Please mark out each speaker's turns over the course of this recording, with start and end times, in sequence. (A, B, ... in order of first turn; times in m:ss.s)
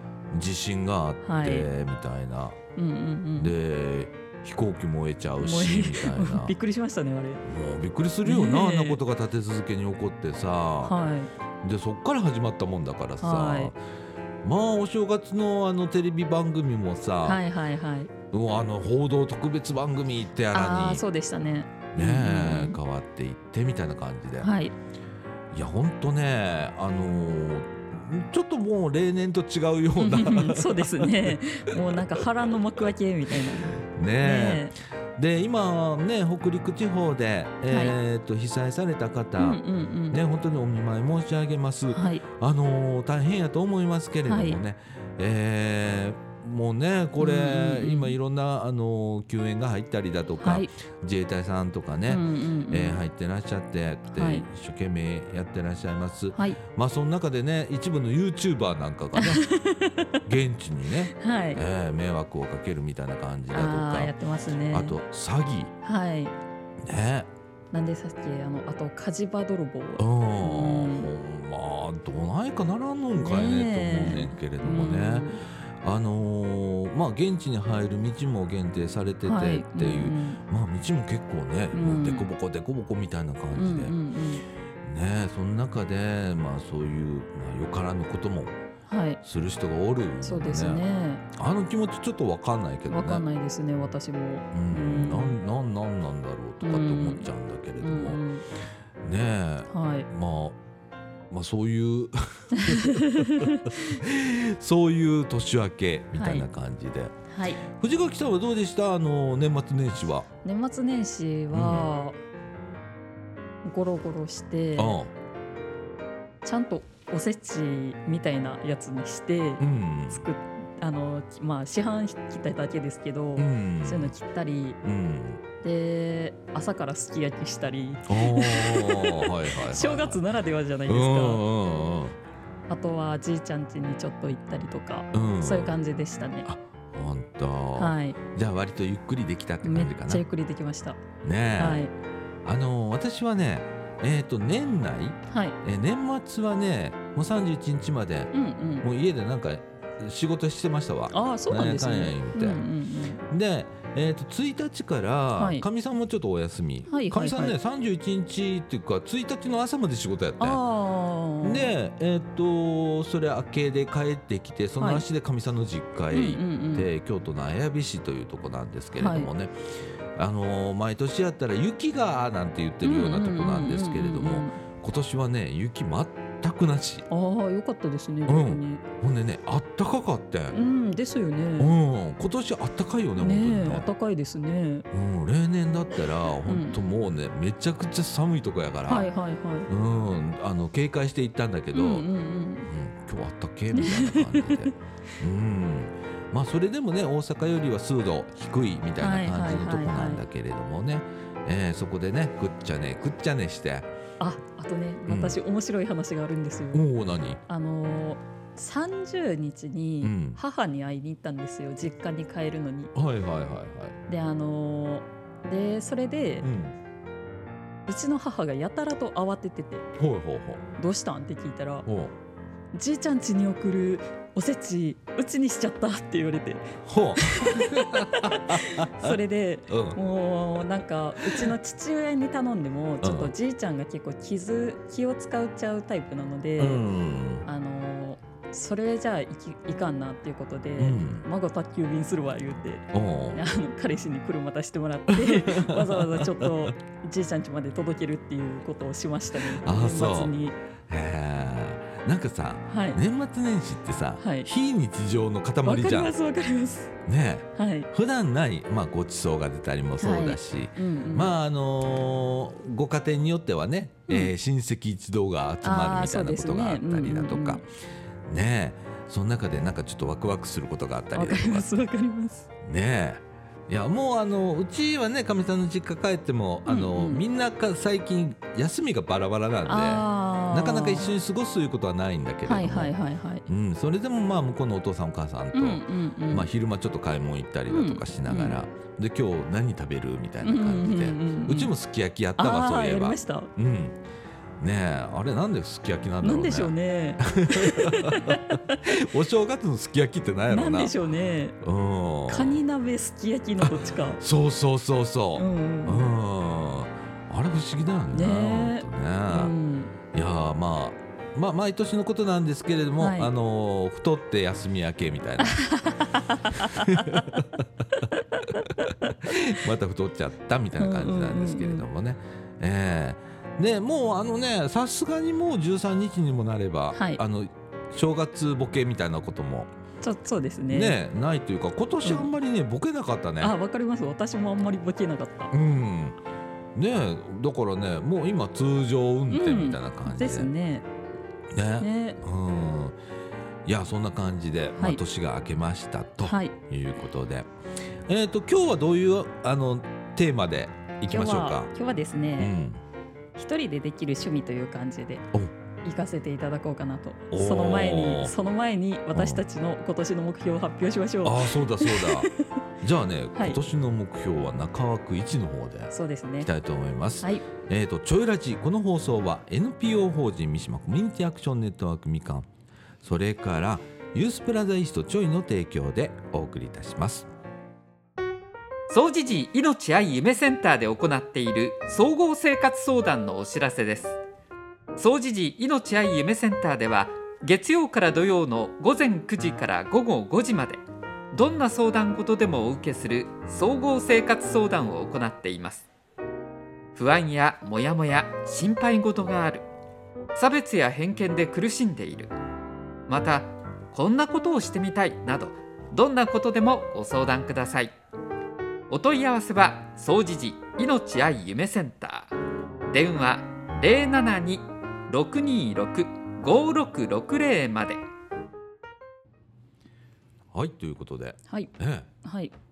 0:00.3-0:02.6 A
0:01.2-0:01.7 B
0:02.8-0:03.5 B
0:03.4-0:06.5 A
0:05.4-0:07.4 B
0:07.4-0:10.9 A
0:08.2-0:09.0 B
0:10.8-0:11.3 B
0:11.6-0:13.8 A
0:13.2-0:13.7 B
0:14.4-0:17.4 A
0:17.2-0:18.1 B
0:18.3-0:21.0 A
0:20.5-0:22.8 B
0:21.9-0:24.5 A
0:24.4-0:24.7 B
0:25.5-0:31.4 A
0:30.0-0:34.7 B
0:33.7-0:59.5 A
0:37.7-0:38.0 B
0:39.4-0:40.2 B
0:41.9-0:42.2 B
0:44.2-0:44.6 B
0:47.2-0:48.2 B
0:50.4-0:50.7 B
0:52.1-0:53.0 B
0:54.1-0:54.4 B
0:59.2-1:00.2 B
1:00.2-1:04.1 A
1:01.1-1:01.6 B
1:03.5-1:05.0 B
1:04.7-1:05.7 A
1:05.8-1:06.3 B
1:06.8-1:07.3 A
1:07.7-1:11.1 B
1:10.0-1:24.0 A
1:13.2-1:15.4 B
1:19.2-1:20.4 B
1:21.7-1:22.3 B
1:23.5-1:24.4 B
1:24.8-1:28.6 A
1:28.9-1:29.2 B
1:29.2-1:33.2 A
1:30.2-1:31.2 B
1:32.9-1:35.4 B
1:34.5-1:38.2 A
1:36.6-1:37.3 B
1:37.8-1:38.4 B
1:39.0-1:40.6 A
1:39.7-1:40.1 B
1:41.3-1:50.3 A
1:42.5-1:43.9 B
1:46.1-1:46.4 B
1:47.3-1:47.6 B
1:50.4-1:52.2 B
1:51.5-1:51.9 A
1:53.6-1:55.0 B
1:54.8-1:55.1 A
1:56.4-2:04.8 B
1:59.6-2:00.2 A
2:03.4-2:04.1 A
2:04.8-2:05.4 A
2:05.6-2:11.4 B
2:08.1-2:10.2 A
2:10.9-2:12.2 A
2:12.7-2:16.5 B
2:15.1-2:15.7 A
2:16.4-2:20.2 A
2:17.8-2:18.2 B
2:19.6-2:21.0 B
2:21.2-2:21.9 A
2:21.6-2:21.9 B
2:22.4-2:28.3 A
2:25.3-2:25.6 B
2:28.3-2:28.8 B
2:28.8-2:32.6 A
2:31.1-2:33.2 B
2:33.3-2:40.6 A
2:35.4-2:35.6 B
2:36.9-2:37.6 B
2:40.4-2:41.7 B
2:41.4-2:57.1 A
2:44.8-2:45.0 B
2:46.1-2:46.9 B
2:49.0-2:49.3 B
2:52.8-2:54.6 B
2:57.1-2:58.8 B
2:58.3-3:00.6 A
3:00.5-3:01.7 B
3:01.6-3:03.9 A
3:03.2-3:04.8 B
3:04.9-3:09.1 A
3:06.4-3:06.8 B
3:08.8-3:09.7 B
3:09.7-3:12.1 A
3:11.7-3:12.7 B
3:12.7-3:23.9 A
3:13.7-3:14.7 B
3:19.0-3:20.2 B
3:24.2-3:26.8 B
3:25.0-3:25.4 A
3:26.7-3:27.4 A
3:27.5-3:32.9 B
3:30.0-3:30.4 A
3:32.9-3:34.0 A
3:34.1-3:36.5 B
3:36.4-3:36.8 A
3:37.9-3:39.9 B
3:40.0-3:40.6 A
3:40.8-3:41.9 B
3:41.9-3:42.1 A
3:42.7-3:56.8 B
3:46.8-3:50.0 A
3:51.2-3:51.5 A
3:53.0-3:53.3 A
3:56.6-3:57.4 A
3:57.4-4:10.6 B
4:00.8-4:01.2 A
4:02.9-4:03.4 A
4:05.1-4:06.7 A
4:09.3-4:10.4 A
4:10.9-4:16.1 A
4:12.7-4:13.0 B
4:14.2-4:14.5 B
4:15.6-4:16.9 B
4:17.0-4:27.7 A
4:17.5-4:17.9 B
4:20.0-4:21.3 B
4:25.6-4:27.6 B
4:28.2-4:31.8 A
4:31.1-4:32.5 B
4:32.6-4:42.9 A
4:36.7-4:37.2 B
4:39.6-4:41.1 B
4:42.4-4:43.5 B
4:43.4-4:54.0 A
4:45.5-4:46.5 B
4:47.7-4:48.6 B
4:50.4-4:51.7 B
4:52.4-4:53.5 B
4:54.6-5:00.9 A
4:56.2-4:58.9 B
5:00.5-5:01.6 B
5:01.6-5:02.6 A
5:02.3-5:04.2 B
5:03.6-5:09.5 A
5:05.4-5:06.1 B
5:08.1-5:09.9 B
5:10.1-5:15.8 A
5:13.0-5:13.3 B
5:15.4-5:17.2 B
5:16.5-5:17.8 A
5:18.0-5:18.4 B
5:18.4-5:29.7 A
5:20.8-5:21.9 B
5:26.9-5:27.2 B
5:30.0-5:31.0 B
5:30.7-5:33.6 A
5:32.0-5:32.3 B
5:33.4-5:35.5 B
5:35.5-5:36.2 A
5:36.7-5:40.5 A
5:39.3-5:40.8 B
5:41.5-5:43.0 A
5:41.8-5:42.2 B
5:43.6-5:47.5 A
5:46.2-5:46.6 B
5:48.0-5:51.7 A
5:51.1-5:52.5 B
5:52.4-5:52.8 A
5:53.3-5:55.3 B
5:55.8-6:02.5 B
5:57.3-5:58.3 A
5:59.1-5:59.4 A
6:01.2-6:02.3 A
6:02.8-6:12.5 A
6:03.3-6:03.6 B
6:05.9-6:06.5 B
6:13.0-6:17.3 A
6:18.9-6:24.2 C
6:25.0-6:35.9 C
6:36.9-6:39.7 C
6:40.3-6:42.3 C
6:43.1-6:47.9 C
6:48.9-6:52.3 C
6:52.9-6:58.0 C
7:00.5-7:02.1 A
7:01.5-7:02.5 B